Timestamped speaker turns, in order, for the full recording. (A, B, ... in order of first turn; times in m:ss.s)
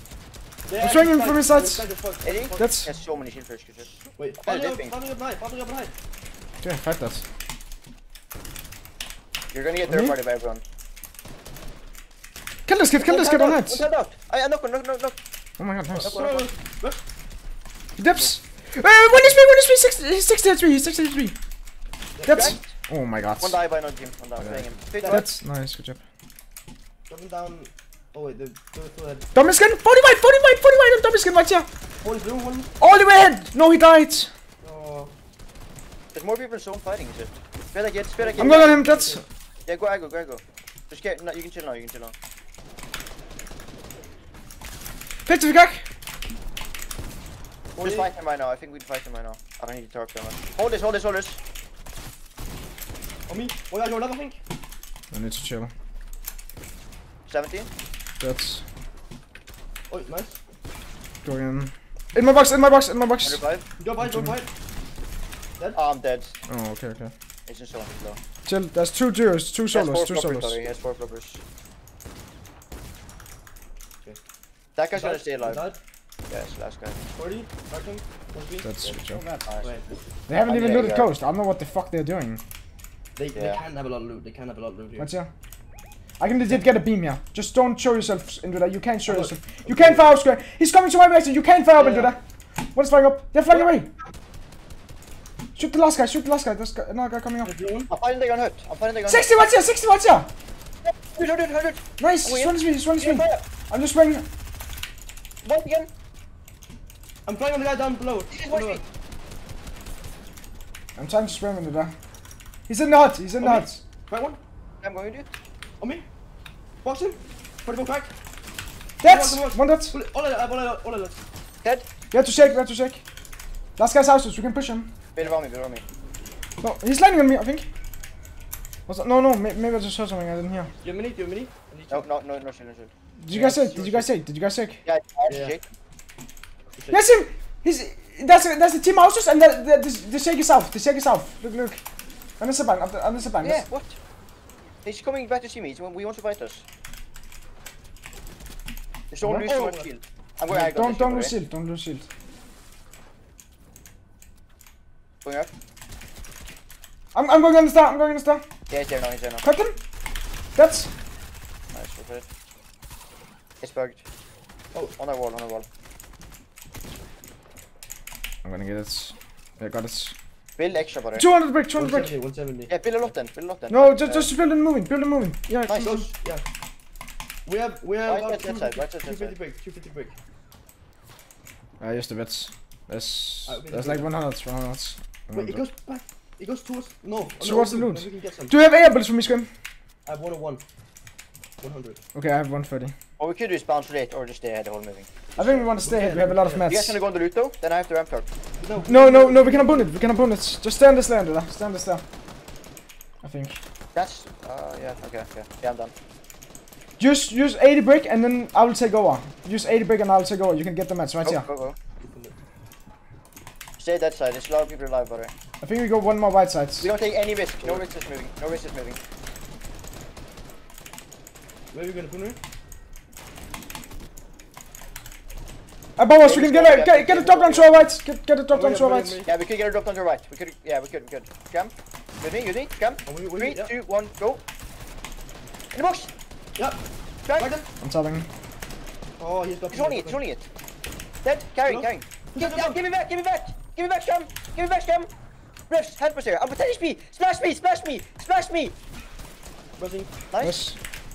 0:00.7-0:02.6 A
0:00.8-0:01.8 B
0:02.2-0:03.9 C
0:02.6-0:02.9 B
0:04.2-0:05.9 A
0:04.4-0:04.9 C
0:06.6-0:07.2 B
0:09.5-0:10.6 C
0:09.9-0:10.1 B
0:12.7-0:13.8 B
0:13.0-0:15.2 C
0:15.6-0:16.2 B
0:15.9-0:17.0 A
0:16.0-0:16.5 C
0:18.0-0:21.3 B
0:22.2-0:22.6 A
0:22.2-0:23.6 B
0:22.3-0:22.7 C
0:23.4-0:25.2 C
0:24.4-0:26.0 B
0:25.0-0:25.2 A
0:27.1-0:29.2 A
0:29.3-0:31.7 B
0:32.0-0:32.7 A
0:32.8-0:34.3 B
0:34.6-0:35.1 A
0:36.1-0:38.8 C
0:38.2-0:39.2 A
0:38.4-0:39.2 B
0:39.6-0:42.1 C
0:45.2-0:45.8 B
0:47.8-0:48.1 A
0:47.8-0:51.4 C
0:53.3-0:54.4 A
0:55.1-0:55.7 B
0:57.3-0:57.7 C
0:58.2-0:58.6 B
0:59.9-1:00.4 A
1:01.2-1:03.4 B
1:03.2-1:03.6 C
1:03.8-1:04.5 A
1:04.0-1:04.3 B
1:05.7-1:06.3 C
1:06.5-1:07.1 B
1:07.5-1:08.2 C
1:08.4-1:10.6 B
1:09.7-1:11.4 C
1:14.8-1:15.6 C
1:14.9-1:15.8 A
1:16.3-1:17.0 C
1:17.1-1:19.0 A
1:18.6-1:19.2 B
1:19.1-1:19.7 C
1:19.6-1:19.9 A
1:20.3-1:22.4 B
1:20.4-1:21.1 C
1:23.2-1:25.1 A
1:23.3-1:23.6 C
1:25.0-1:25.3 B
1:26.2-1:32.2 B
1:29.1-1:30.1 A
1:31.8-1:32.1 A
1:32.7-1:33.9 B
1:35.6-1:37.5 B
1:37.4-1:37.9 A
1:37.9-1:39.3 C
1:39.1-1:40.3 B
1:40.8-1:43.4 C
1:42.0-1:44.2 B
1:45.4-1:45.9 C
1:47.3-1:48.8 A
1:48.3-1:48.8 C
1:51.0-1:51.9 B
1:52.7-1:53.8 B
1:53.4-1:54.4 A
1:54.8-1:55.3 C
1:55.8-1:56.1 A
1:56.8-1:58.1 A
1:59.0-1:59.9 B
1:59.0-2:01.2 A
2:02.1-2:03.0 B
2:03.8-2:04.9 B
2:05.1-2:05.8 C
2:06.6-2:07.7 B
2:08.9-2:10.7 B
2:10.8-2:12.1 A
2:11.9-2:12.9 C
2:13.2-2:14.8 B
2:13.3-2:14.1 A
2:14.8-2:15.7 C
2:15.3-2:15.6 A
2:16.8-2:17.0 A
2:16.9-2:21.8 B
2:22.4-2:23.6 B
2:23.4-2:24.0 C
2:24.8-2:26.6 C
2:29.1-2:31.4 C
2:29.2-2:29.5 B
2:29.3-2:29.9 A
2:30.5-2:32.1 B
2:35.2-2:35.5 C
2:37.1-2:38.4 B
2:38.7-2:39.4 C
2:39.4-2:39.8 B
2:40.6-2:40.9 B
2:41.7-2:42.2 C
2:43.6-2:44.0 C
2:45.0-2:45.6 C
2:48.4-2:50.1 B
2:50.6-2:51.3 C
2:51.1-2:52.1 B
2:51.8-2:52.7 A
2:52.7-2:54.3 C
2:53.7-2:56.1 B
2:55.7-2:56.1 C
2:55.8-2:56.4 A
2:57.4-3:00.1 A
2:58.1-2:59.3 C
3:01.8-3:05.6 B
3:03.4-3:04.1 A
3:05.3-3:08.6 A
3:07.4-3:09.5 B
3:10.1-3:10.6 A
3:11.6-3:12.0 A
3:12.1-3:12.9 B
3:13.2-3:15.1 C
3:15.4-3:16.7 A
3:15.4-3:17.0 B
3:16.6-3:18.2 C
3:18.6-3:20.2 A
3:18.8-3:22.0 B
3:23.2-3:23.6 B
3:24.0-3:25.9 C
3:27.0-3:31.5 B
3:31.2-3:31.8 C
3:32.0-3:32.4 A
3:33.8-3:35.3 C
3:35.6-3:36.9 B
3:36.8-3:39.0 C
3:41.7-3:42.4 A
3:46.0-3:49.2 B
3:46.2-3:47.9 C
3:48.5-3:49.3 A
3:49.2-3:54.4 C
3:53.0-3:53.7 A
3:55.7-3:56.1 C
3:57.2-3:57.5 C
3:57.4-3:57.7 A
3:57.8-3:58.3 B
3:59.2-4:00.2 A
3:59.7-4:00.4 C
4:01.2-4:05.1 C
4:01.6-4:02.8 A
4:05.7-4:08.7 C
4:09.8-4:10.1 A
4:10.3-4:10.6 C
4:10.4-4:10.8 B